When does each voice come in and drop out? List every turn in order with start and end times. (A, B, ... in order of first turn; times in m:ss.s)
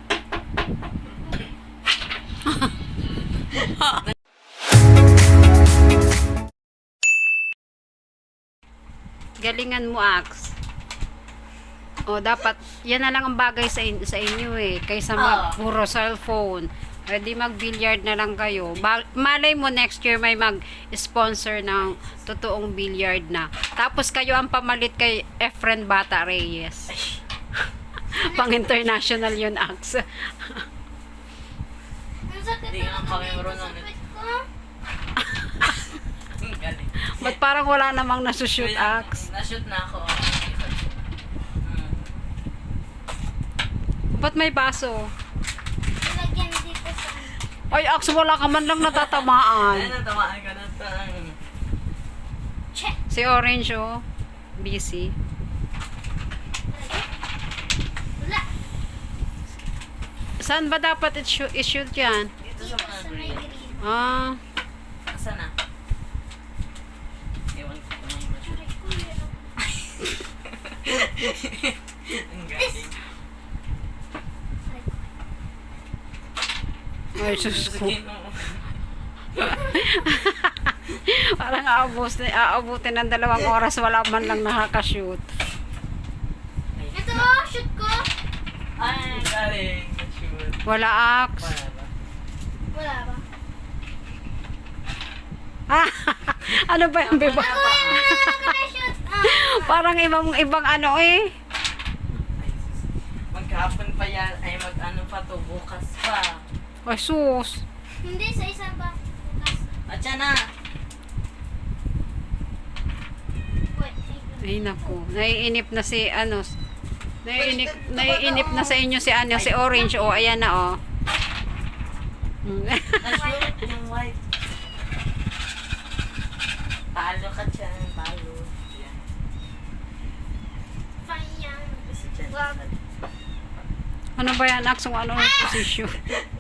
0:09.4-0:10.5 A
0:12.0-0:26.9 A
0:15.2-0:15.6 B
0:18.5-0:18.9 B
0:26.9-0:27.2 B
0:28.1-0:30.6 A
0:28.1-0:28.9 C
0:32.3-0:34.4 C
0:32.7-0:33.9 B
0:36.3-0:37.4 B
0:37.0-0:39.2 A
0:38.6-0:41.0 B
0:41.6-0:42.2 B
0:44.1-0:45.1 A
0:46.0-0:47.4 C
0:47.7-0:50.0 A
0:48.8-0:51.4 B
0:53.1-0:54.0 A
0:54.6-0:55.2 A
0:56.7-0:57.1 C
0:58.2-0:58.5 C
1:00.4-1:02.3 A
1:02.4-1:03.5 B
1:02.5-1:03.8 C
1:03.8-1:04.4 A
1:05.1-1:05.5 B
1:07.5-1:08.6 B
1:08.4-1:09.4 C
1:10.7-1:13.0 B
1:12.6-1:12.9 C
1:14.7-1:15.0 C
1:17.2-1:18.0 A
1:17.2-1:18.6 B
1:19.4-1:25.2 A
1:26.8-1:27.3 B
1:26.9-1:28.1 C
1:28.8-1:30.6 B
1:28.8-1:29.3 C
1:30.6-1:31.5 A
1:31.4-1:31.9 B
1:32.7-1:33.2 C
1:35.7-1:38.6 A
1:37.0-1:38.0 B
1:37.2-1:39.8 C
1:39.2-1:41.3 A
1:42.3-1:46.4 B
1:46.9-1:47.6 A
1:48.0-1:49.8 C
1:49.9-1:50.5 B
1:53.7-1:55.0 C
1:54.4-1:56.5 A
1:57.2-2:00.8 A
1:57.3-1:58.8 C
1:59.3-2:00.0 B
1:59.7-2:00.3 C
2:02.4-2:03.3 A
2:03.0-2:04.2 B
2:03.1-2:03.5 C
2:06.9-2:09.0 B
2:11.0-2:12.6 C
2:11.9-2:12.8 B
2:14.2-2:16.0 A